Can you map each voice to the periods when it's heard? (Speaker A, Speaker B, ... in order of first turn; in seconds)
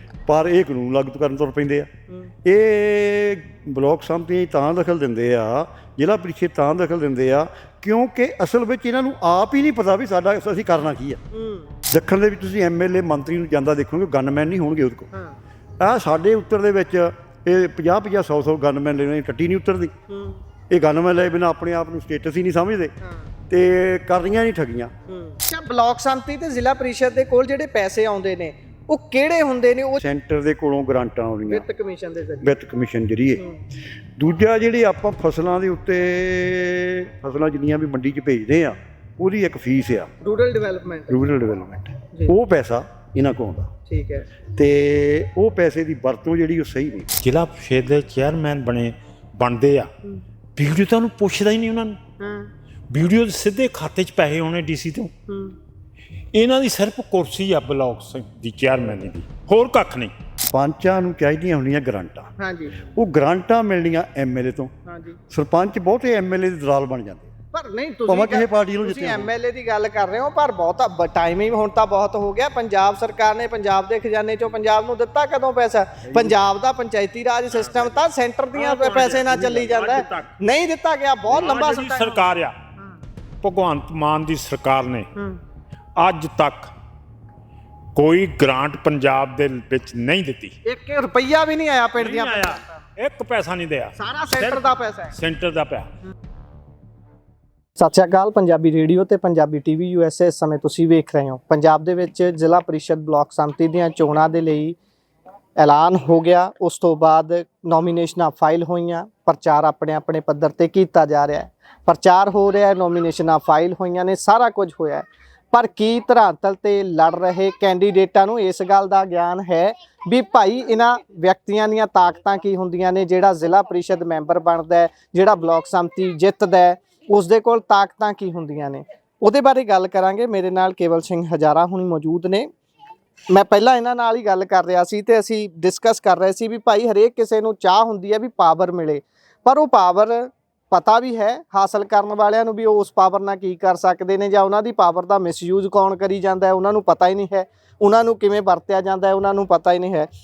Speaker A: 0.3-1.9, 2.5-11.2, 11.9-15.1, 15.8-19.9, 20.7-22.9, 23.5-24.9, 30.0-31.6, 32.4-33.4, 34.2-40.1, 41.1-43.7, 44.5-47.1, 60.5-64.7, 65.3-67.3, 68.1-69.3
Speaker B: 11.3-11.7, 15.1-15.4, 20.1-20.4, 23.0-23.3, 25.1-30.0, 31.5-32.6, 33.4-33.6, 40.2-41.2, 43.9-44.3, 52.2-52.5, 55.3-55.6, 62.4-62.8, 64.9-65.2, 67.5-83.0, 85.2-85.4, 90.7-92.9, 94.0-95.1, 97.8-104.8, 105.6-132.5, 133.3-150.1
Speaker C: 47.2-49.9, 50.6-52.0, 52.9-55.1, 56.3-60.1, 77.5-78.0, 78.5-80.4, 81.3-82.6, 83.4-85.1, 86.0-86.7, 88.0-90.5, 92.0-95.9